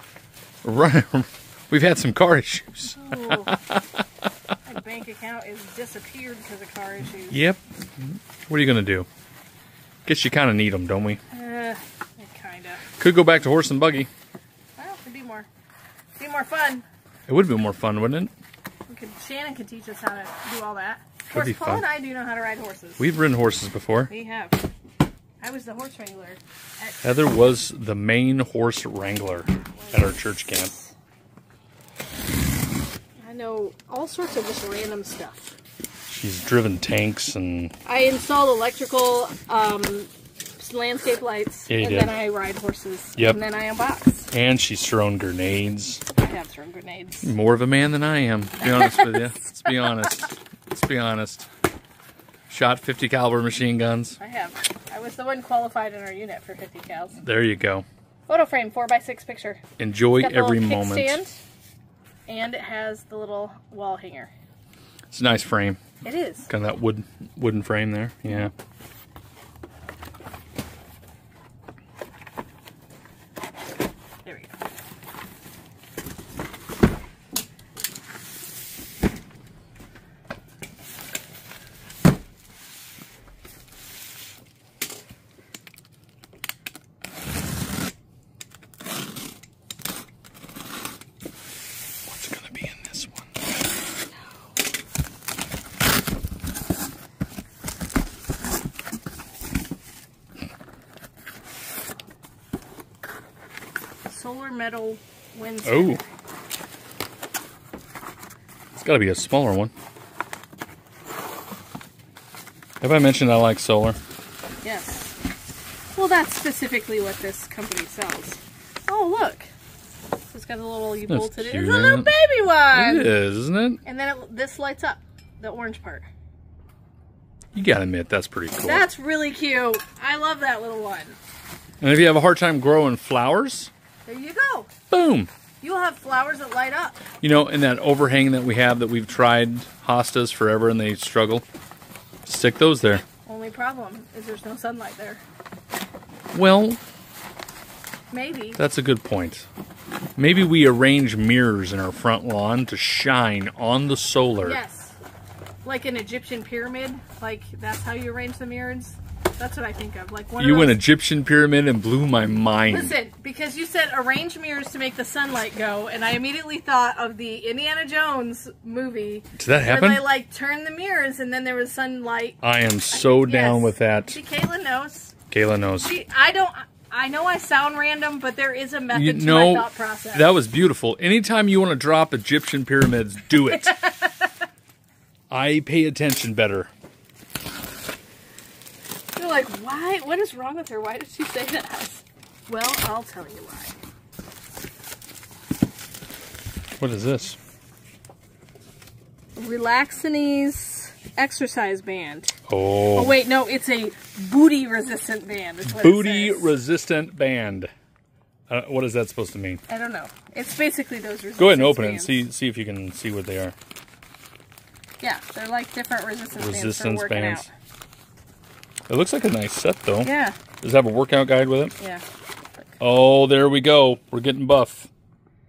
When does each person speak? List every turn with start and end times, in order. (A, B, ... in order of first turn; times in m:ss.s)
0:00.6-0:04.0 A
0:02.9-0:03.6 B
0:04.6-0:07.5 B
0:07.3-0:09.1 A
0:10.0-0:11.2 A
0:11.3-0:12.8 B
0:13.0-0:14.1 A
0:14.8-0:15.5 B
0:16.2-0:16.8 B
0:17.3-0:18.3 A
0:18.9-0:23.1 B
0:21.3-0:21.9 A
0:23.0-0:24.1 A
0:24.1-0:24.6 B
0:25.4-0:27.1 B
0:27.0-0:30.7 A
0:29.8-0:30.9 B
0:33.2-0:35.5 B
0:36.1-0:37.7 A
0:37.8-0:44.3 B
0:41.7-0:42.1 A
0:44.3-0:46.0 A
0:46.2-0:47.3 B
0:47.2-0:51.4 A
0:48.6-0:49.3 B
0:52.5-0:54.2 A
0:54.2-0:57.2 B
0:57.2-0:57.8 A
0:58.3-0:59.6 B
0:59.8-1:01.2 A
1:00.2-1:01.4 B
1:02.3-1:04.3 B
1:05.1-1:05.8 A
1:06.0-1:06.5 B
1:06.5-1:08.5 A
1:14.2-1:14.5 B
1:32.0-1:33.3 A
1:44.1-1:46.0 B
1:45.6-1:46.0 A
1:48.7-1:49.7 A
1:52.8-1:54.0 A
1:54.6-1:55.0 B
1:55.9-1:59.5 B
2:00.3-2:03.1 B
2:01.1-2:02.1 A
2:02.7-2:03.8 A
2:03.8-2:06.1 B
2:07.5-2:08.8 A
2:08.6-2:11.2 B
2:11.8-2:13.7 A
2:14.0-2:14.7 B
2:14.9-2:15.3 A
2:15.6-2:17.0 B
2:17.2-2:21.4 A
2:22.2-2:23.0 A
2:23.2-2:25.2 B
2:26.3-2:26.8 A
2:28.1-2:28.6 B
2:28.6-2:29.5 A
2:30.2-2:34.6 A
2:34.4-2:35.0 B
2:35.6-2:40.8 B
2:40.4-2:42.9 A
2:42.7-2:52.4 B
2:49.4-2:50.0 A
2:52.4-2:54.2 A
2:52.9-2:55.1 B
2:55.3-2:55.9 A
2:55.8-3:00.3 B
2:58.9-3:03.8 A
3:03.4-3:04.3 B
3:05.3-3:06.7 A
3:09.2-3:13.7 B
3:16.8-3:17.4 A
3:19.4-3:22.4 B
3:22.5-3:23.2 A
3:22.9-3:26.5 B
3:25.6-3:27.7 A
3:28.5-3:29.6 A
3:29.7-3:32.2 B
3:31.4-3:33.6 A
3:35.0-3:37.5 B
3:36.4-3:37.5 A
3:38.9-3:41.7 A
3:40.0-3:40.4 B
3:41.8-3:42.0 B
3:42.8-3:44.9 A